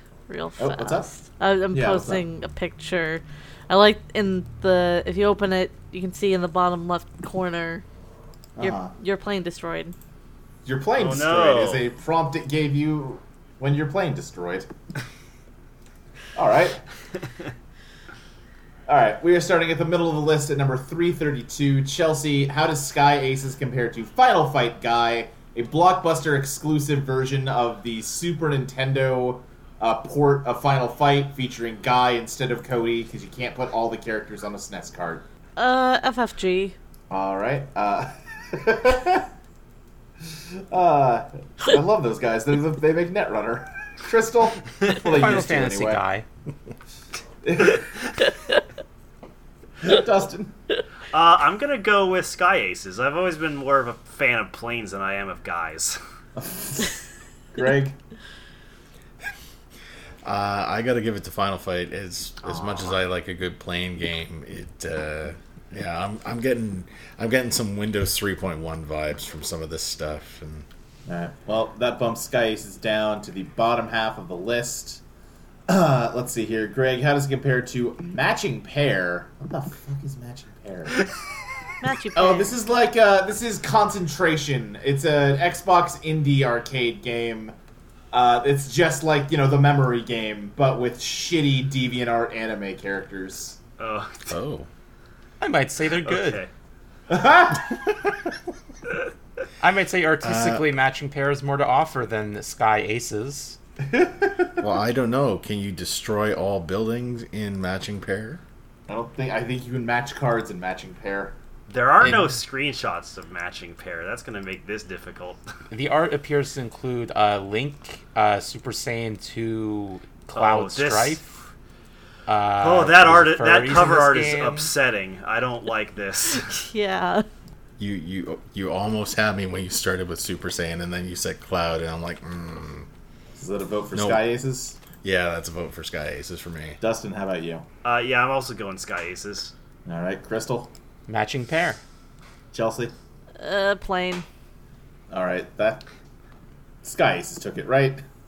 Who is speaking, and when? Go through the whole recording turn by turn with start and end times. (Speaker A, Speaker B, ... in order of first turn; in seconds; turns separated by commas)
Speaker A: 0.3-7.8, Speaker B: 0.6-1.1, Speaker B: 1.7-2.2, Speaker B: 8.6-8.9, Speaker A: 8.6-9.9, Speaker B: 10.7-14.7, Speaker C: 11.0-11.9, Speaker B: 16.4-16.8, Speaker B: 18.9-35.2, Speaker A: 35.6-36.8, Speaker B: 37.1-39.3, Speaker B: 40.7-46.0, Speaker D: 45.0-46.2, Speaker B: 47.4-48.1, Speaker B: 49.8-50.5, Speaker C: 51.1-56.0, Speaker B: 56.4-58.0, Speaker E: 60.2-70.7, Speaker B: 71.1-75.0, Speaker B: 75.7-81.1, Speaker A: 81.8-82.5, Speaker B: 82.2-87.5, Speaker B: 88.1-93.6, Speaker C: 93.8-94.3, Speaker E: 94.3-94.7, Speaker D: 95.4-96.5, Speaker C: 95.8-96.5, Speaker B: 97.1-98.1, Speaker D: 99.6-103.6, Speaker E: 100.2-100.7, Speaker B: 103.9-104.6, Speaker E: 104.6-108.4, Speaker B: 108.9-111.4, Speaker C: 111.7-115.4, Speaker D: 115.7-121.3, Speaker C: 120.3-121.2, Speaker D: 122.3-124.7, Speaker C: 122.6-126.5, Speaker A: 126.5-127.2, Speaker E: 127.8-132.9, Speaker B: 133.4-134.8, Speaker E: 133.9-134.2, Speaker E: 135.0-136.8, Speaker B: 136.8-137.7, Speaker C: 137.8-139.5, Speaker B: 139.9-140.7, Speaker D: 141.1-141.8, Speaker B: 142.5-142.9, Speaker A: 143.4-144.2, Speaker B: 145.1-145.8, Speaker B: 146.8-148.0